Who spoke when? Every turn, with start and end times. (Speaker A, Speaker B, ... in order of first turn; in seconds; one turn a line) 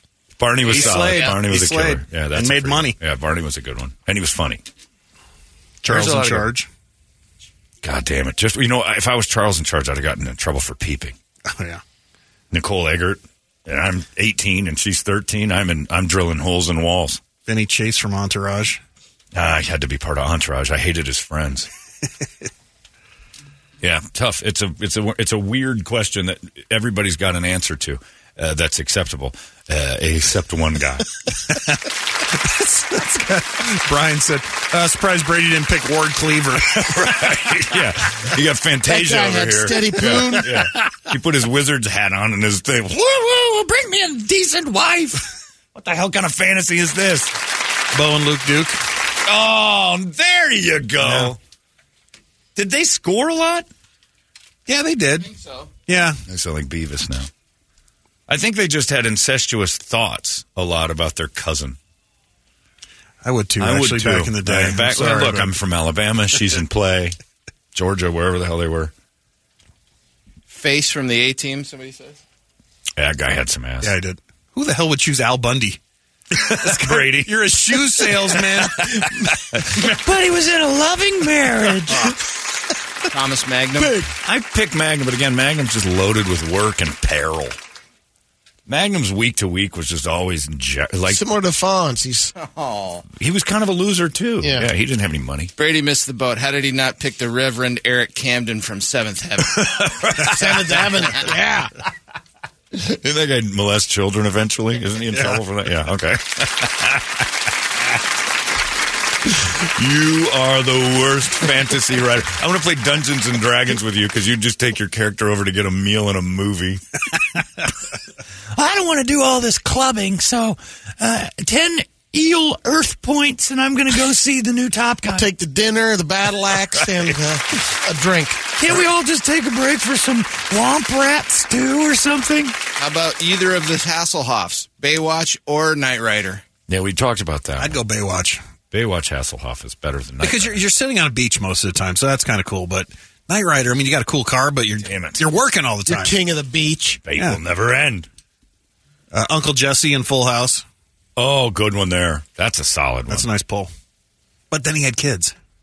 Speaker A: 0.4-4.6
Speaker B: 0.6-3.0
Speaker C: 0.7-1.3
Speaker B: 5.8-6.7
Speaker A: 5.9-6.5
Speaker A: 7.8-11.2
Speaker B: 11.5-11.8
Speaker A: 12.5-17.2
Speaker B: 17.4-18.8
Speaker A: 19.3-21.7
Speaker A: 23.8-31.2
Speaker B: 32.3-37.4
Speaker A: 36.8-47.3
Speaker D: 38.9-40.5
Speaker B: 47.9-48.8
Speaker A: 49.2-51.4
Speaker B: 51.0-51.3
Speaker A: 52.5-53.7
Speaker B: 54.7-55.3
Speaker C: 55.2-55.7
Speaker B: 55.9-56.2
Speaker A: 56.3-57.3
Speaker A: 58.3-61.8
Speaker B: 63.2-65.5
Speaker A: 63.6-67.2
Speaker A: 67.7-68.9
Speaker C: 70.5-72.2
Speaker A: 73.0-74.0
Speaker B: 73.8-75.8
Speaker A: 76.3-82.1
Speaker B: 76.5-79.1
Speaker C: 83.1-84.0
Speaker A: 84.0-87.6
Speaker A: 88.7-91.2
Speaker D: 91.1-92.3
Speaker C: 92.3-93.0
Speaker A: 93.1-95.5
Speaker D: 94.4-94.7
Speaker C: 95.6-99.6
Speaker A: 99.6-100.8
Speaker D: 100.3-101.7
Speaker A: 102.7-107.2
Speaker A: 109.2-116.8
Speaker E: 118.5-125.3
Speaker D: 125.1-128.5
Speaker E: 128.6-132.5
Speaker C: 132.8-136.4
Speaker A: 136.7-137.8
Speaker B: 137.6-138.4
Speaker A: 138.7-140.6
Speaker B: 140.2-146.1
Speaker A: 144.8-145.2
Speaker D: 145.9-147.0
Speaker A: 147.0-148.1
Speaker B: 149.1-150.6
Speaker A: 151.2-153.3
Speaker B: 153.1-153.7
Speaker B: 154.5-155.3